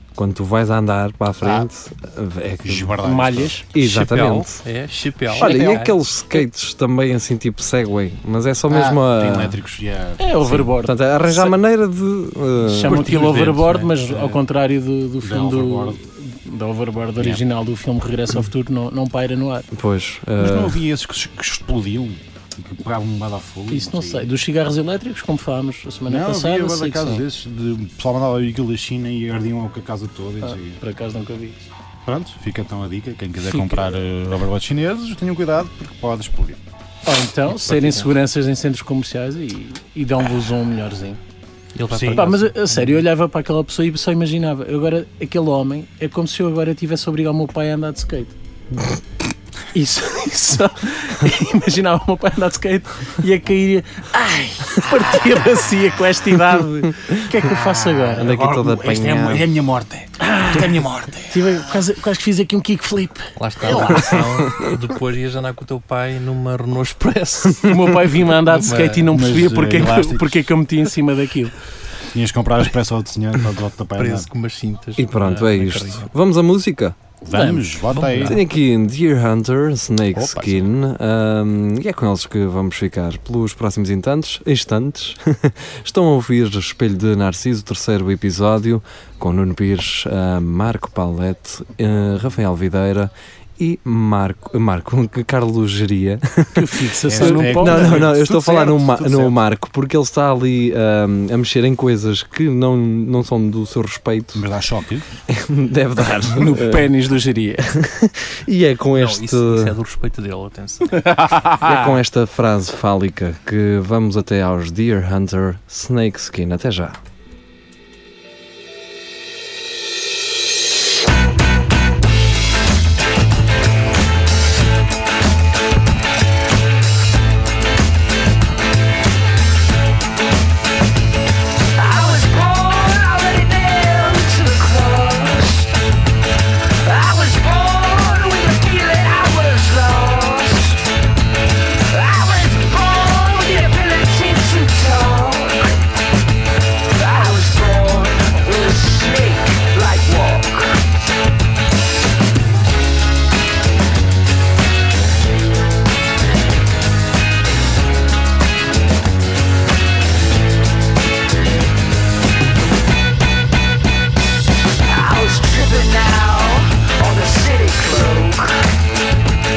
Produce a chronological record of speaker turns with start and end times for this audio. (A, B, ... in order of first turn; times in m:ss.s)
0:00.2-0:03.0 A
0:01.4-0:01.7 B
0:02.6-0:03.6 B
0:03.0-0:03.7 C
0:03.7-0:04.6 A
0:03.8-0:06.0 D
0:05.3-0:09.6 A
0:08.7-0:10.2 B
0:10.2-0:11.6 C
0:10.4-0:13.0 A
0:12.7-0:19.7 C
0:12.8-0:14.4 D
0:15.2-0:16.0 B
0:19.7-0:20.8 A
0:20.4-0:24.3 B
0:23.7-0:27.2 C
0:26.0-0:30.8 B
0:30.4-0:31.6 C
0:32.0-0:36.6 B
0:33.5-0:33.9 C
0:37.0-0:41.2 C
0:37.6-0:38.1 D
0:41.8-0:43.0 D
0:41.9-0:42.3 B
0:42.1-0:48.4 C
0:49.7-0:58.3 C
0:57.3-1:01.7 B
0:58.2-0:59.5 A
1:00.2-1:00.7 C
1:01.3-1:04.0 C
1:03.4-1:07.8 D
1:03.6-1:04.2 B
1:07.7-1:11.5 C
1:08.4-1:09.2 D
1:09.1-1:10.5 B
1:12.1-1:14.3 B
1:14.0-1:16.1 D
1:15.0-1:16.9 A
1:17.2-1:18.4 B
1:17.3-1:17.8 C
1:17.9-1:18.4 D
1:18.2-1:36.6 A
1:20.1-1:20.7 B
1:36.5-1:38.1 C
1:37.0-1:39.4 B
1:37.2-1:44.4 A
1:44.3-1:45.1 B
1:45.3-1:46.9 A
1:46.3-1:47.7 C
1:47.7-1:49.8 A
1:48.9-1:51.1 D
1:51.0-1:51.7 C
1:51.6-1:57.0 A
2:11.8-2:15.7 E
2:16.8-2:20.8 E
2:21.9-2:25.7 E
2:27.0-2:30.8 E
2:44.9-2:48.6 E